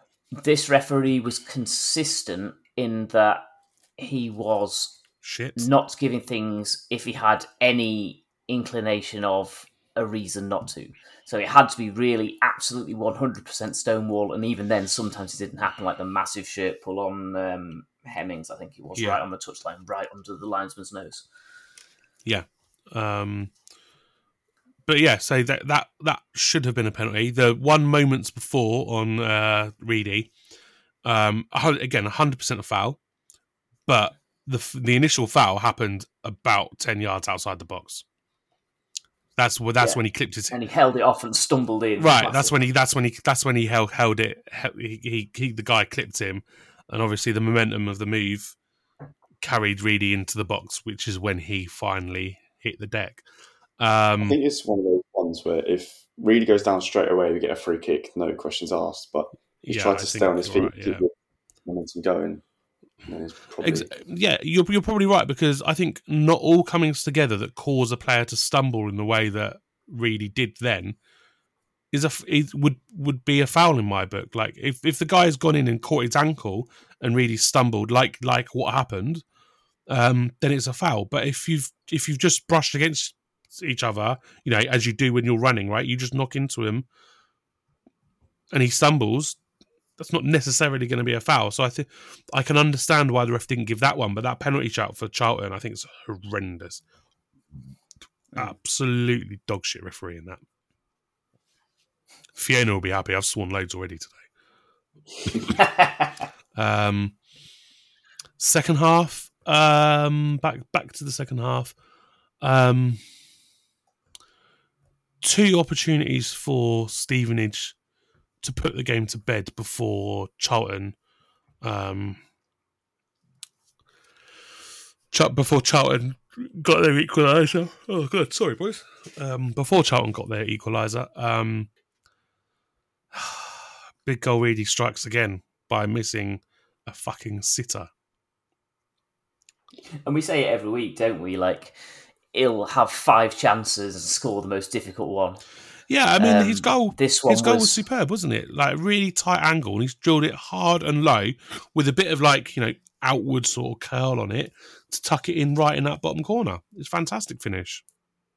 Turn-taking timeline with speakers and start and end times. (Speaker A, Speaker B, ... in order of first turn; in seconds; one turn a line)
Speaker A: 0.4-3.4
Speaker A: 4.0-5.0
Speaker B: 5.2-5.6
Speaker A: 5.6-21.3
Speaker B: 22.2-23.5
Speaker B: 24.9-30.3
Speaker B: 31.1-33.0
Speaker B: 33.9-38.0
Speaker B: 39.4-40.5
Speaker A: 39.8-42.5
Speaker B: 42.0-48.6
Speaker B: 49.4-53.2
Speaker B: 53.8-54.4
Speaker C: 54.2-61.1
Speaker B: 59.6-61.0
Speaker C: 61.6-62.4
Speaker C: 63.1-63.9
Speaker B: 63.6-71.0
Speaker B: 71.9-79.2
Speaker B: 79.9-86.8
Speaker B: 88.5-89.4
Speaker B: 90.0-96.8
Speaker B: 98.3-100.4
Speaker B: 102.3-104.2
Speaker A: 105.6-106.2
Speaker B: 106.6-107.2
Speaker B: 108.4-111.8
Speaker B: 112.4-113.0
Speaker B: 115.2-117.8
Speaker B: 118.4-120.9
Speaker B: 121.6-122.2
Speaker B: 125.1-131.7
Speaker B: 133.1-137.9
Speaker A: 140.1-141.8
Speaker A: 142.3-145.4
Speaker B: 145.9-157.8
Speaker A: 146.2-147.8